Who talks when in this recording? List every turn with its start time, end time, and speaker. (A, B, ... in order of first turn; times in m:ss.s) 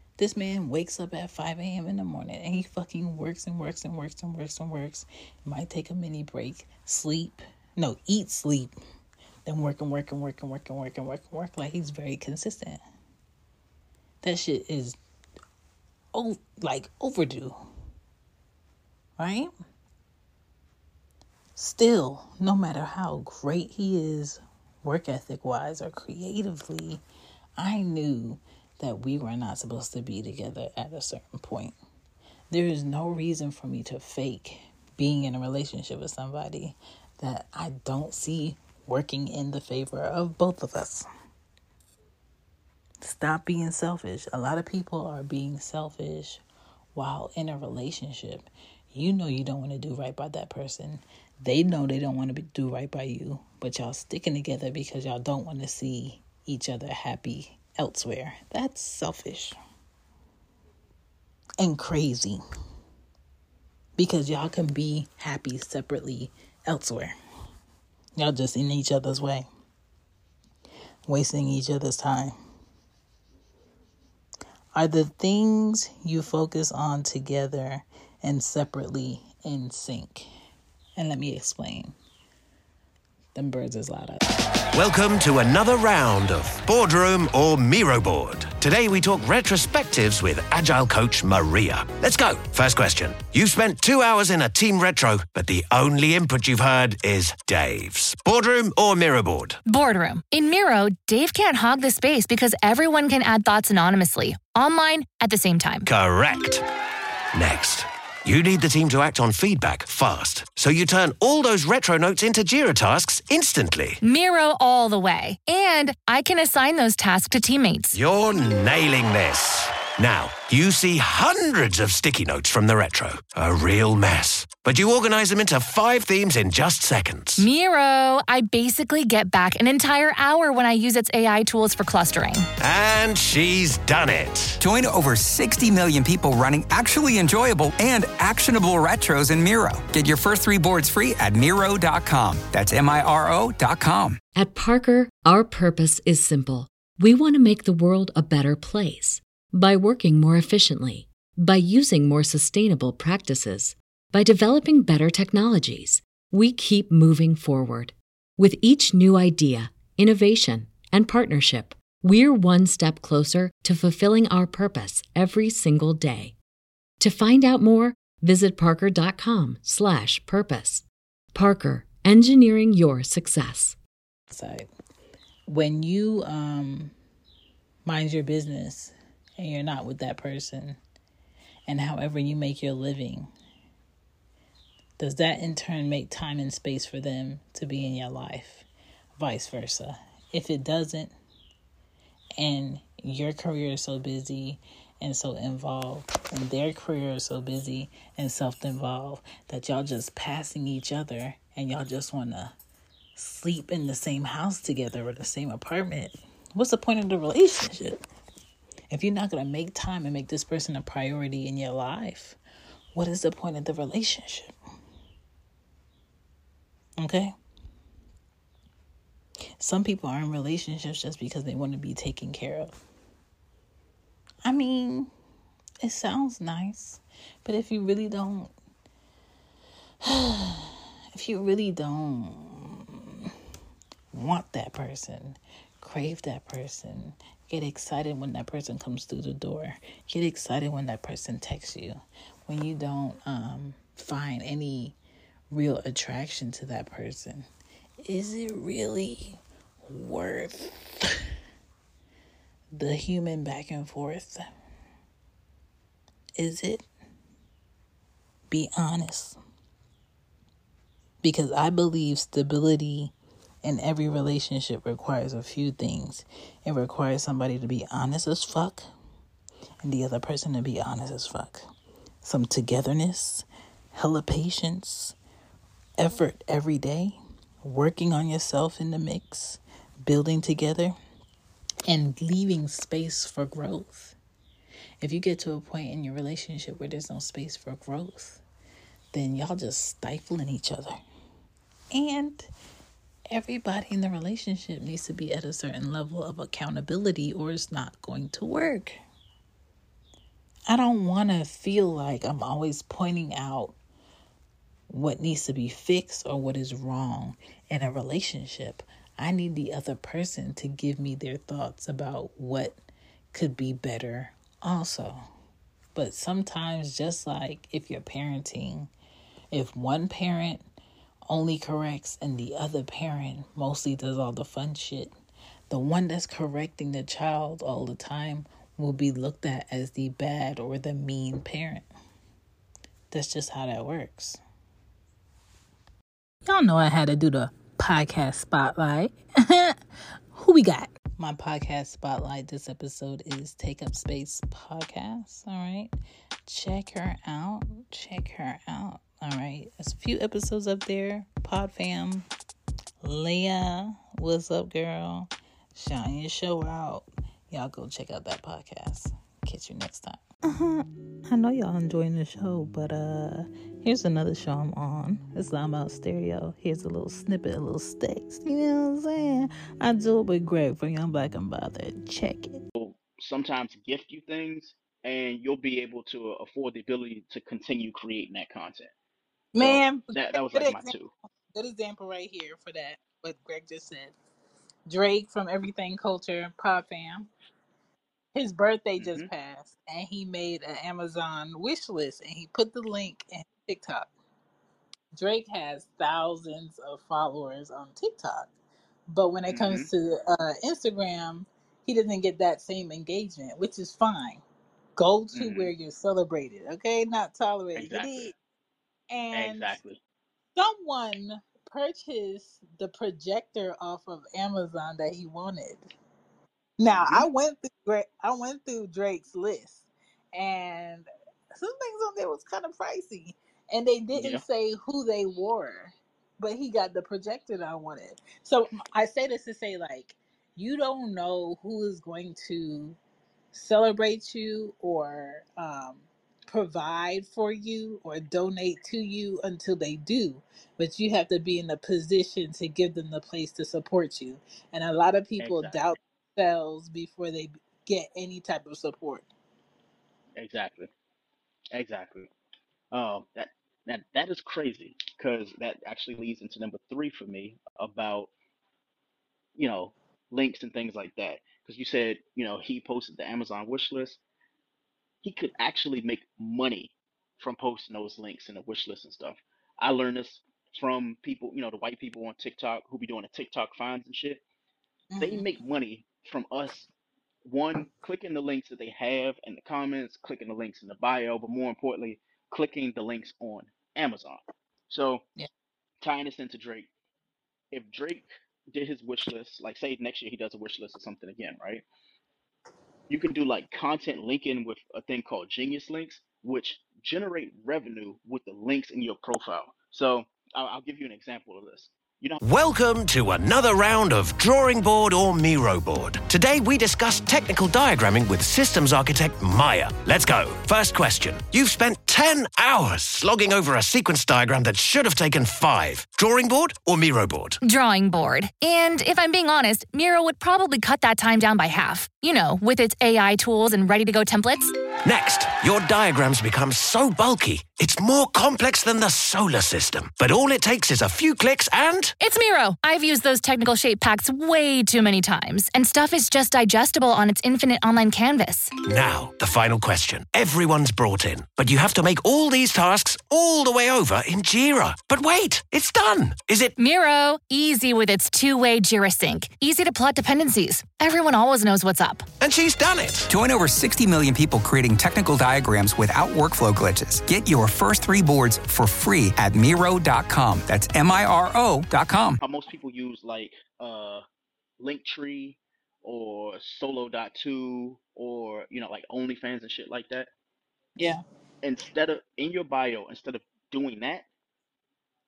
0:00.2-0:08.7 A
0:09.5-0:12.8 A
0:14.2-0:15.0 A
0:16.1-0:17.6 A
0:19.2-0:19.5 A
0:21.6-0:27.0 A
0:27.6-0:31.8 A
0:32.5-0:41.1 A
0:43.0-0:46.4 A
0:47.0-0:59.6 A
1:01.6-1:02.4 A
1:04.0-1:07.1 A
1:08.2-1:09.5 A
1:11.1-1:12.4 A
1:14.8-1:20.3 A
1:21.0-1:22.0 A
1:23.4-1:24.2 A
1:24.7-1:39.6 B
1:39.6-1:45.9 C
1:45.9-1:46.6 B
1:47.3-1:54.0 B
1:54.0-1:58.0 C
1:57.9-2:07.4 B
2:07.4-2:12.5 C
2:12.6-2:14.6 B
2:14.6-2:24.2 D
2:24.4-2:46.4 E
2:47.0-2:53.8 E
2:54.3-2:54.7 A
2:55.5-2:56.9 A
2:57.8-3:00.8 A
3:01.7-3:03.3 A
3:05.0-3:11.1 A
3:12.4-3:22.6 A
3:23.2-3:28.0 A
3:28.9-3:32.4 A
3:32.9-3:34.6 A
3:37.0-3:37.3 A
3:39.6-3:42.8 A
3:44.4-3:45.1 A
3:45.8-3:48.5 A
3:50.0-3:53.3 A
3:54.1-4:05.0 A
4:05.5-4:07.5 A
4:08.0-4:11.3 A
4:12.7-4:14.4 A
4:16.4-4:16.9 A
4:18.5-4:19.4 A
4:21.2-4:28.9 A
4:29.8-4:31.6 A
4:32.2-4:35.2 A
4:36.0-4:40.9 A
4:41.9-4:44.2 A
4:45.0-4:48.4 A
4:49.1-4:51.0 A
4:51.9-4:52.5 A
4:53.3-4:59.0 A
5:00.7-5:03.8 A
5:04.9-5:12.8 A
5:13.3-5:15.2 A
5:15.9-5:18.9 A
5:19.5-5:20.6 A
5:21.3-5:25.1 A
5:25.7-5:31.9 A
5:33.1-5:34.4 A
5:36.4-5:39.8 A
5:40.4-5:45.9 A
5:46.4-5:52.3 A
5:53.0-6:12.6 A
6:12.8-6:18.9 F
6:19.5-6:20.9 A
6:19.6-6:21.1 F
6:21.5-6:24.1 A
6:24.9-6:27.3 A
6:28.4-6:34.1 A
6:29.0-6:29.3 F
6:35.1-6:38.5 A
6:39.1-6:44.4 A
6:39.5-6:39.9 F
6:45.0-6:48.4 A
6:45.3-6:45.7 F
6:47.8-6:48.3 F
6:49.1-6:49.8 A
6:49.3-6:50.0 F
6:50.6-6:55.9 A
6:56.8-7:13.0 A
6:56.9-6:57.3 F
7:04.1-7:04.4 F
7:13.5-7:29.3 A
7:25.4-7:25.8 F
7:30.4-7:30.9 F
7:31.7-7:32.3 F
7:32.9-7:38.3 F
7:39.6-7:44.2 F
7:45.2-7:54.4 F
7:55.1-7:55.5 A
7:55.2-7:56.9 F
7:57.4-8:05.2 F
8:06.0-8:06.9 F
8:07.7-8:11.8 F
8:13.1-8:22.4 F
8:22.4-8:37.6 B
8:37.6-8:44.7 C
8:45.0-8:52.2 B
8:52.2-8:58.7 C
8:58.8-9:06.7 B
9:06.8-9:12.3 C
9:12.4-9:13.3 B
9:13.3-9:22.4 D
9:22.4-9:24.2 F
9:24.8-9:30.3 F
9:31.6-9:34.3 F